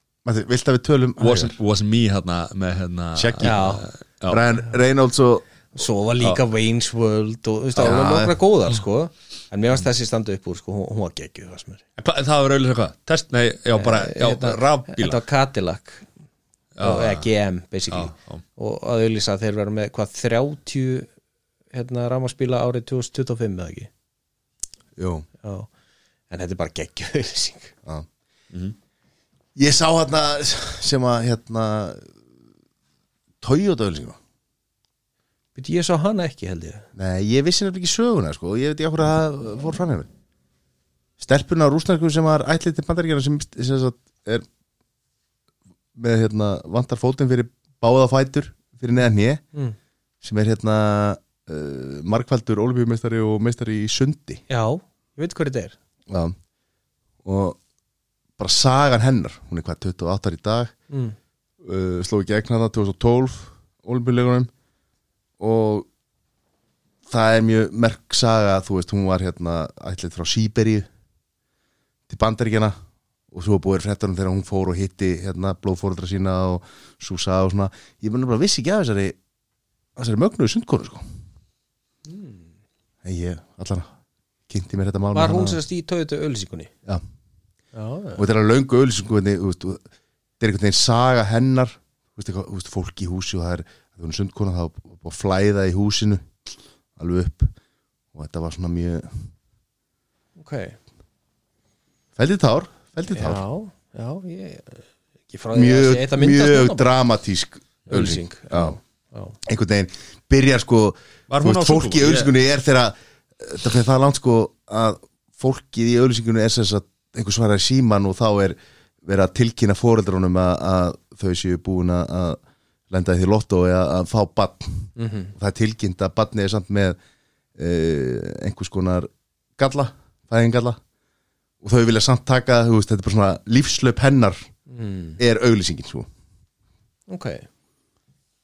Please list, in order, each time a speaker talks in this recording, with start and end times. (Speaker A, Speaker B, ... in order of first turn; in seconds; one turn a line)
Speaker A: 0.2-1.5
Speaker B: 1.2-4.4
Speaker A: 3.1-3.7
Speaker C: 3.4-3.9
Speaker A: 4.3-5.4
Speaker C: 5.7-11.8
Speaker A: 7.8-8.3
Speaker B: 12.0-15.2
Speaker C: 13.8-16.1
Speaker B: 16.8-17.2
Speaker C: 16.8-21.1
Speaker B: 17.9-18.4
Speaker C: 21.7-23.9
Speaker A: 25.0-25.2
Speaker C: 25.4-25.7
Speaker C: 26.3-27.7
Speaker A: 29.6-32.1
Speaker A: 33.4-34.2
Speaker C: 35.5-36.9
Speaker A: 37.0-40.1
Speaker A: 41.2-44.5
Speaker A: 45.9-49.4
Speaker A: 50.2-54.4
Speaker C: 54.5-55.7
Speaker A: 56.1-56.4
Speaker A: 57.2-57.6
Speaker A: 58.4-60.7
Speaker C: 60.9-61.1
Speaker A: 61.6-64.5
Speaker A: 65.4-65.9
Speaker A: 67.1-70.9
Speaker A: 72.1-72.8
Speaker A: 73.3-79.2
Speaker A: 80.0-81.0
Speaker C: 82.1-82.5
Speaker A: 83.0-83.9
Speaker A: 84.5-85.6
Speaker C: 85.1-86.7
Speaker C: 87.7-88.2
Speaker A: 88.2-89.8
Speaker A: 90.4-96.2
Speaker A: 97.0-97.5
Speaker A: 98.1-99.3
Speaker C: 100.4-100.8
Speaker A: 102.2-103.4
Speaker C: 103.1-106.9
Speaker A: 105.5-108.8
Speaker C: 107.9-109.3
Speaker A: 109.4-127.0
Speaker B: 111.3-112.3
Speaker C: 125.0-125.3
Speaker A: 127.6-130.8
Speaker A: 131.6-134.4
Speaker C: 134.7-135.2
Speaker A: 135.2-136.1
Speaker C: 137.1-137.4